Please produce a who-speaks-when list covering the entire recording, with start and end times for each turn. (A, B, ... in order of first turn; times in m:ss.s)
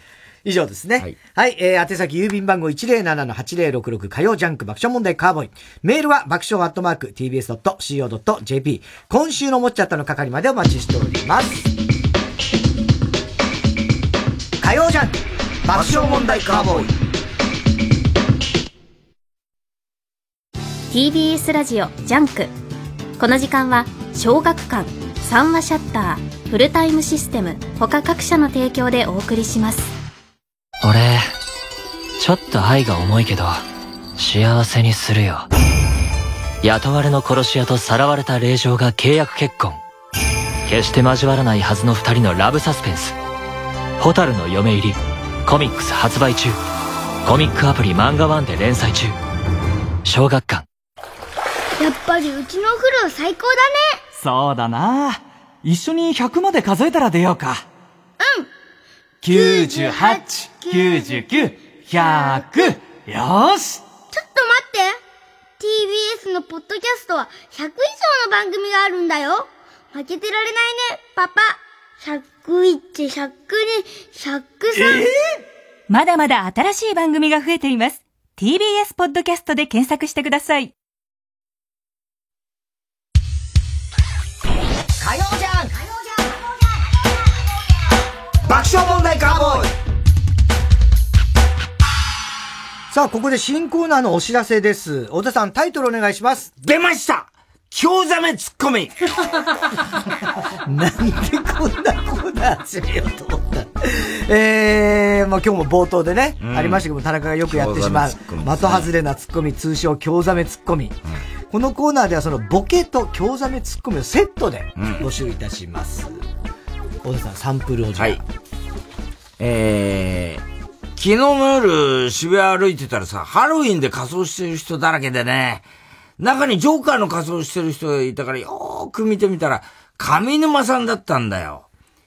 0:00.4-0:11.7 A
0:14.6-0:16.9 A
0:20.9-0:22.5 B
0:23.2-0:29.9 B
0:30.8-0:31.3 C
0:32.2-0:33.6 C
0:34.2-0:35.5 C
0:36.6-0:39.8 C
0:40.7-0:43.2 C
0:44.0-0:46.6 C
0:47.2-0:49.2 C
0:50.0-0:50.6 C
0:51.8-0:54.0 D
0:54.2-0:57.6 E
0:58.2-0:58.5 D
0:59.2-1:01.0 D
0:59.3-1:03.8 E
1:02.1-1:02.7 D
1:04.1-1:05.0 D
1:05.6-1:15.1 D
1:15.9-1:20.7 F
1:25.0-1:25.8 A
1:28.4-1:29.7 A
1:32.9-1:36.5 A
1:36.6-1:39.0 G
1:40.6-1:51.0 A
1:46.4-1:46.8 G
1:47.4-1:48.9 G
1:51.5-1:56.1 A
1:54.8-1:55.0 G
1:57.0-1:58.2 A
1:58.0-1:58.2 G
1:59.4-2:00.4 G
2:01.0-2:05.7 G
2:06.2-2:11.7 G